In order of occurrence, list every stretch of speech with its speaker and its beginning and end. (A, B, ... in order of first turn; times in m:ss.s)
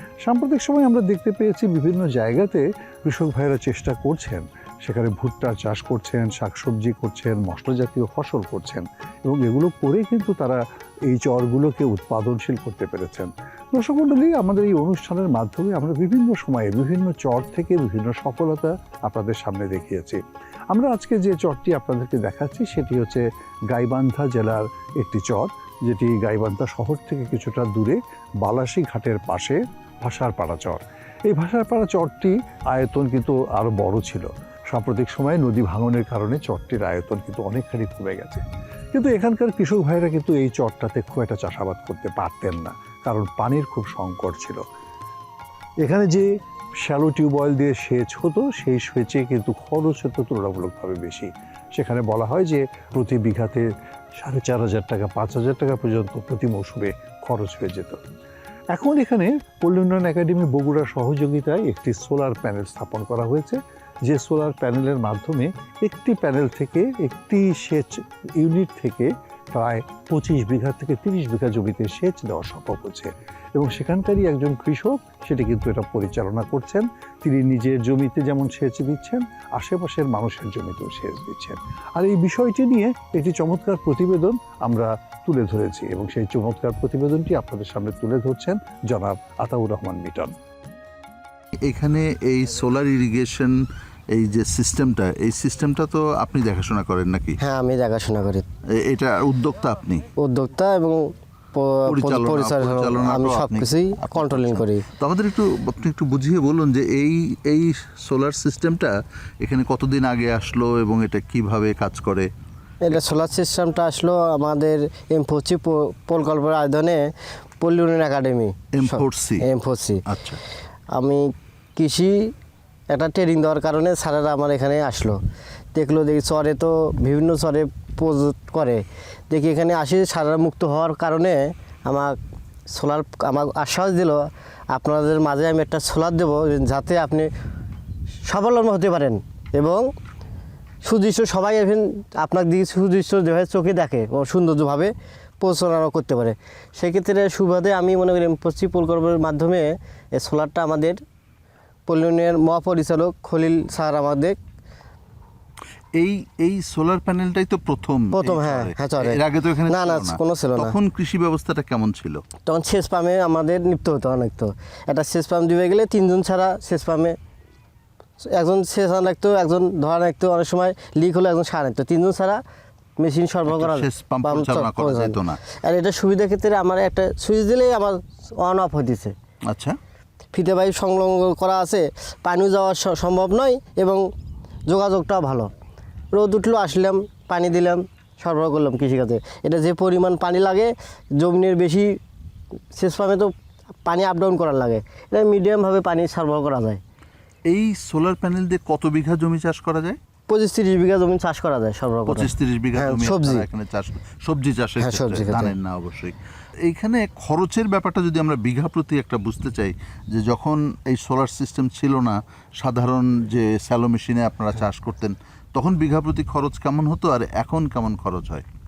0:00.2-0:20.2 A
0:20.7-0:44.6 A
0:45.8-0:53.7 A
0:54.2-0:58.0 A
0:58.7-1:30.3 A
1:31.6-1:33.6 B
1:34.1-1:37.4 B
1:37.4-1:38.4 C
1:38.7-1:40.0 B
1:40.2-1:44.8 C
1:41.9-1:52.3 B
1:52.8-1:57.1 C
1:57.6-2:00.0 C
1:58.7-1:59.4 B
2:00.1-2:00.4 B
2:00.9-2:02.3 C
2:02.9-2:05.2 C
2:05.7-2:12.2 C
2:12.7-2:17.3 C
2:18.3-2:19.9 C
2:20.8-2:31.0 C
2:31.9-2:34.4 C
2:35.9-2:42.2 B
2:38.1-2:40.7 C
2:42.4-2:47.2 C
2:48.2-2:52.4 C
2:53.0-2:59.1 C
2:53.5-2:55.4 B
2:59.5-2:59.8 B
3:00.3-3:04.0 C
3:04.7-3:05.5 C
3:06.1-3:11.9 C
3:12.7-3:13.3 C
3:13.8-3:16.8 C
3:17.5-3:20.0 B
3:20.3-3:23.4 C
3:22.1-3:38.4 B
3:24.8-3:25.5 C